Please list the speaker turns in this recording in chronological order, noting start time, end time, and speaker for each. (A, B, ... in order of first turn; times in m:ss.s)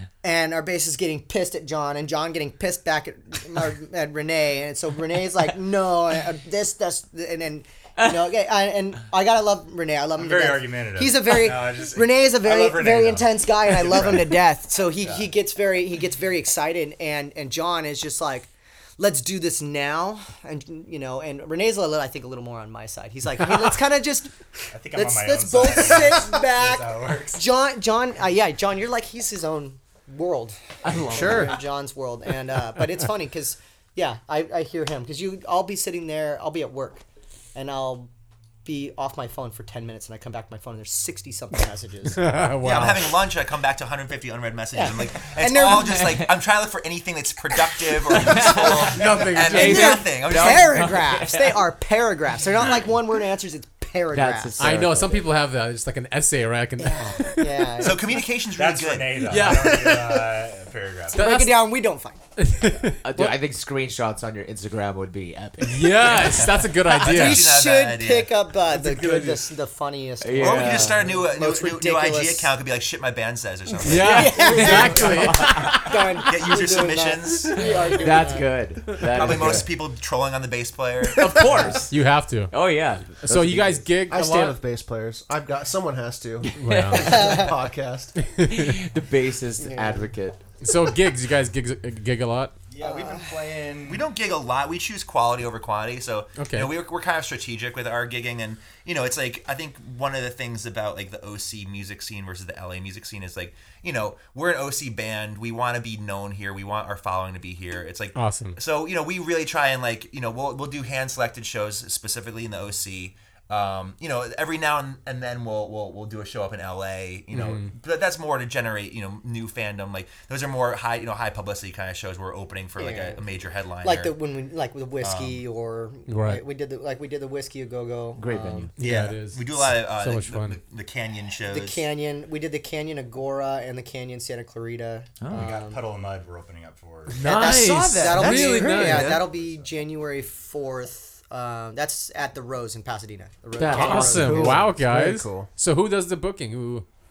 0:00.2-0:24.4 A
0:10.2-0:14.4 B
0:15.0-0:15.3 B
0:24.7-0:27.4 B
0:24.9-0:38.1 A
0:30.8-0:31.6 C
0:31.1-0:31.6 D
0:38.6-0:42.5 A
0:42.1-0:43.2 E
0:42.6-0:51.0 F
0:44.7-0:46.2 A
0:48.2-0:51.6 C
0:48.5-0:50.0 E
0:49.4-0:54.8 A
0:54.1-0:55.3 C
0:54.6-0:57.5 E
0:56.8-0:58.1 A
0:57.8-0:59.4 F
0:58.5-1:01.2 B
0:59.2-1:00.2 E
1:01.1-1:02.2 A
1:01.1-1:01.7 E
1:02.4-1:03.4 E
1:03.0-1:06.6 C
1:05.6-1:07.5 E
1:06.4-1:08.3 F
1:06.9-1:12.5 A
1:08.7-1:09.4 E
1:10.2-1:11.1 C
1:10.4-1:14.3 F
1:13.8-1:15.8 E
1:13.8-1:16.2 C
1:13.9-1:18.5 A
1:16.2-1:17.8 F
1:17.6-1:19.7 C
1:18.9-1:19.5 E
1:19.1-1:21.8 F
1:21.1-1:21.9 C
1:21.9-1:22.5 E
1:22.5-1:23.8 C
1:23.2-1:24.6 E
1:24.1-1:28.1 D
1:26.4-1:27.4 C
1:26.6-1:27.4 E
1:26.9-1:27.5 A
1:28.2-1:28.8 E
1:28.4-1:30.4 C
1:29.6-1:30.1 A
1:30.6-1:32.6 E
1:32.7-1:34.1 B
1:32.8-1:33.3 A
1:33.8-2:04.2 F
1:36.4-1:36.7 E
1:48.1-1:48.6 E
1:57.3-1:57.7 E
2:02.8-2:03.2 A
2:03.8-2:08.7 A
2:05.0-2:05.4 F
2:06.1-2:06.4 E
2:08.2-2:08.7 C
2:08.8-2:10.6 E
2:08.8-2:11.8 F
2:11.5-2:15.8 A
2:15.2-2:15.5 C
2:15.3-2:17.4 B
2:17.1-2:19.2 E
2:17.2-2:24.6 A
2:17.2-2:18.4 C
2:18.1-2:19.2 D
2:19.0-2:19.7 B
2:23.6-2:24.6 C
2:23.7-2:26.8 E
2:24.0-2:25.5 D